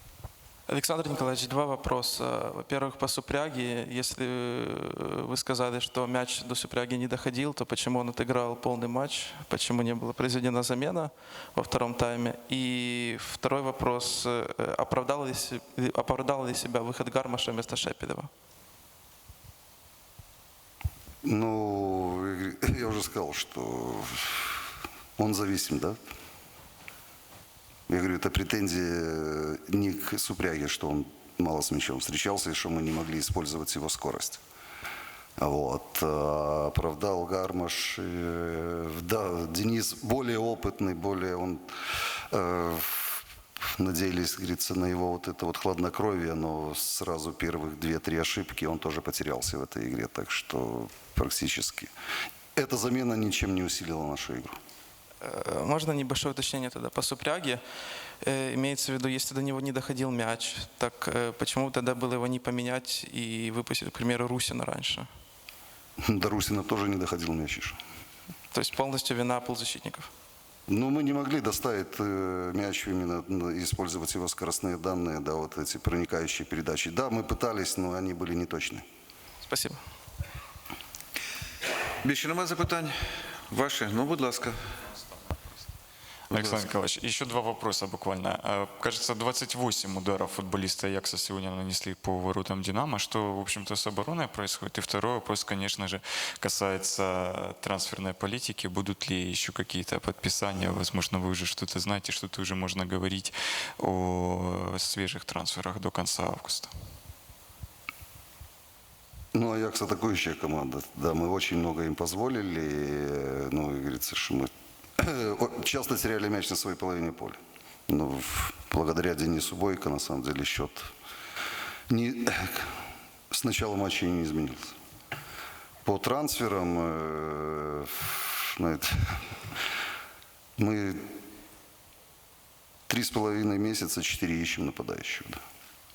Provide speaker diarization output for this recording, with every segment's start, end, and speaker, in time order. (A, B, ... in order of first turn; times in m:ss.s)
0:00.7-0:18.3 A
0:21.2-0:24.6 B
0:25.2-0:26.0 B
0:27.9-0:34.4 B
0:35.4-0:41.7 B
0:42.3-0:43.2 B
0:43.7-0:51.9 B
0:52.6-0:54.6 B
0:55.2-0:57.6 A
0:58.2-1:05.1 A
1:06.0-1:07.8 B
1:08.5-1:10.1 A
1:10.7-1:18.8 B
1:19.4-1:19.8 A
1:22.0-1:22.9 C
1:23.5-1:24.5 C
1:26.3-1:46.7 D
1:26.3-1:26.6 C
1:49.3-2:00.9 B
2:01.9-2:02.7 B
2:03.3-2:04.8 B
2:05.8-2:09.2 B
2:10.6-2:11.0 B
2:12.9-2:15.4 B